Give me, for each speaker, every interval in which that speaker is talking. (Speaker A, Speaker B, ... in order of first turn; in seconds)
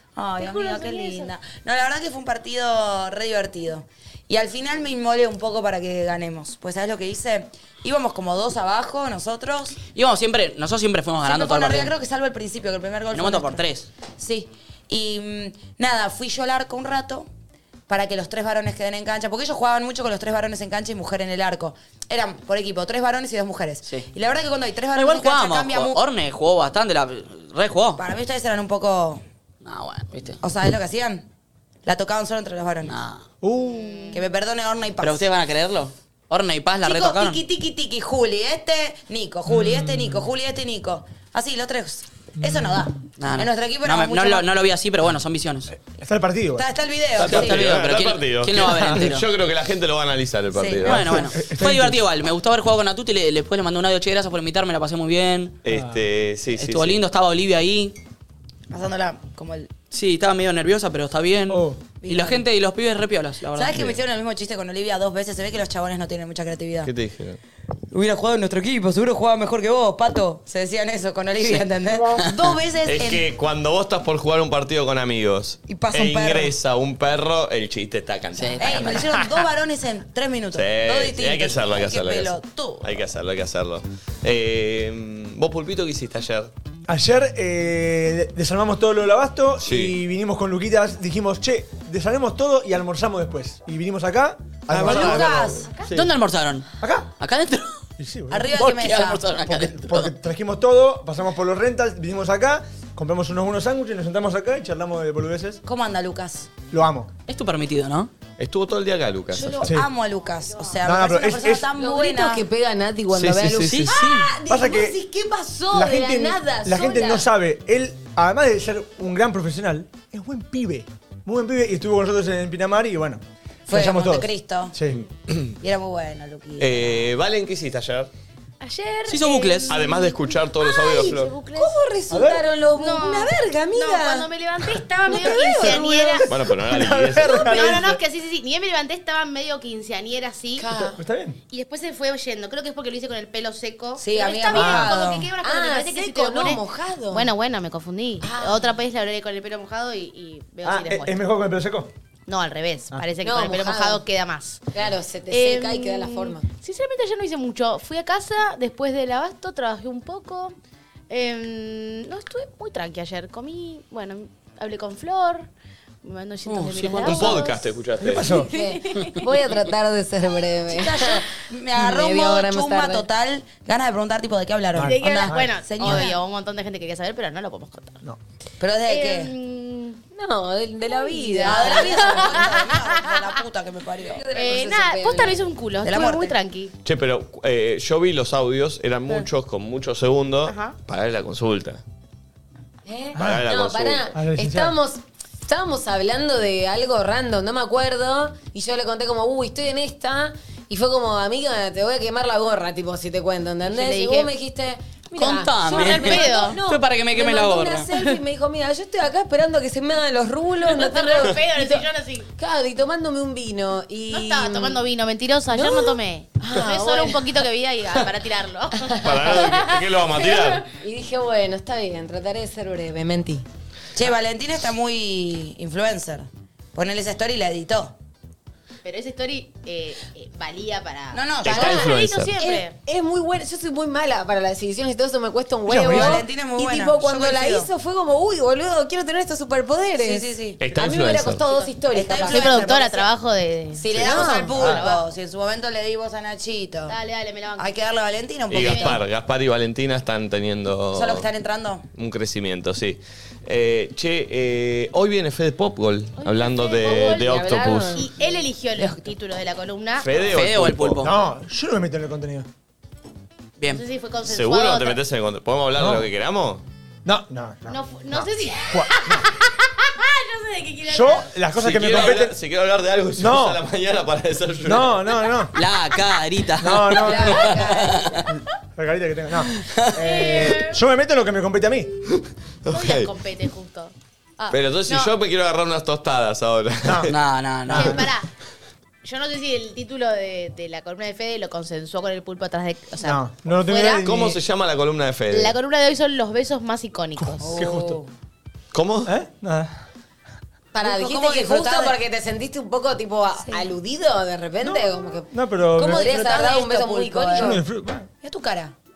Speaker A: 0.1-9.8, 11.2-17.3, 17.9-26.0, 28.0-29.2, 30.4-31.2, 31.9-32.9, 34.1-35.2, 36.8-44.5, 46.5-47.8, 50.5-51.3, 58.7-59.7, 62.0-62.4, 63.5-66.9, 67.9-73.2, 75.7-76.5, 78.6-82.9, 94.7-95.7, 98.3-99.2, 105.6-106.5, 109.3-112.5, 123.7-124.8, 125.6-127.1, 144.0-145.3, 170.7-176.1, 178.6-179.3, 181.4-184.3, 185.8-186.3, 223.9-227.9, 231.1-231.7, 235.8-237.7, 240.0-240.6, 241.9-243.0, 243.8-247.0, 247.6-249.0, 250.9-251.8, 277.0-278.2, 297.4-298.1, 300.8-302.0, 305.8-307.6, 308.2-308.7
Speaker B: 0.4-1.3, 33.6-34.2, 128.6-131.8, 132.7-136.3, 137.2-140.7, 141.5-151.2, 152.3-154.6, 155.3-160.6, 161.1-165.5, 166.0-167.6, 168.3-169.3, 174.8-178.0, 178.9-180.0, 180.9-183.4, 184.3-186.7, 190.4-190.8, 203.7-204.3, 205.7-206.6, 210.6-212.3, 214.1-220.6, 228.8-232.7, 241.4-245.1, 246.9-247.8, 248.5-249.0, 256.2-257.4, 257.9-260.1, 263.7-265.0, 267.7-271.3, 279.9-280.8, 282.7-285.1, 287.7-288.3, 289.0-294.1, 295.3-297.5
Speaker C: 9.9-11.9, 13.1-13.9, 24.9-28.0, 29.6-30.4, 32.8-33.2, 35.0-37.4, 43.2-45.7, 47.2-49.3, 50.8-55.6, 56.5-58.0, 59.9-63.9, 78.4-79.0, 95.9-96.7, 97.2-97.8, 98.5-100.1, 107.3-108.1, 113.7-114.3, 129.1-129.7, 166.4-167.4, 205.2-207.9, 260.3-261.1, 275.5-278.3, 279.6-279.9, 287.1-288.1
Speaker D: 33.4-34.1, 39.5-40.2, 42.4-42.8, 45.8-46.7, 51.3-52.0, 55.7-56.0, 61.5-61.8, 86.9-96.1, 96.8-97.1, 98.0-98.5, 99.4-105.6, 106.7-107.1, 109.6-109.9, 110.8-111.7, 114.5-115.0, 115.7-125.0, 132.1-132.4, 135.1-138.0, 141.0-141.4, 144.5-144.9, 150.6-151.9, 168.0-168.5, 174.7-176.0, 193.2-193.5, 194.1-194.8, 235.7-236.2, 244.6-244.8, 261.0-262.5, 265.8-266.0, 267.0-269.2, 270.9-272.3, 273.2-273.6, 274.6-275.5, 276.6-277.6, 278.3-281.9, 286.8-287.1, 287.7-288.1, 293.0-294.4, 297.2-298.0, 299.1-299.7, 304.6-306.2, 307.4-308.1
Speaker E: 47.1-51.3, 55.6-57.0, 66.8-67.4, 72.8-79.1, 80.5-86.5, 89.6-90.0, 94.7-95.6, 108.4-109.7, 113.1-113.9, 126.6-128.1, 129.7-131.3, 136.3-137.6, 167.0-168.4, 186.8-191.8, 193.2-194.1, 219.0-220.6, 231.4-232.3, 240.6-241.4, 248.5-251.3, 251.9-258.0, 260.0-261.1, 264.2-266.6, 271.6-275.0, 282.1-283.1, 284.5-287.1, 294.0-295.6, 298.7-299.1
Speaker F: 111.7-117.3, 129.0-129.5, 130.8-134.3, 135.0-136.2, 140.6-141.0, 145.4-147.3, 148.2-148.8, 153.2-154.0, 154.7-156.5, 168.4-173.1, 180.1-182.6, 184.1-185.5, 192.8-214.8, 215.5-217.3, 218.8-219.5, 220.7-223.4, 231.5-243.0, 244.0-244.5, 256.8-258.4, 300.7-307.6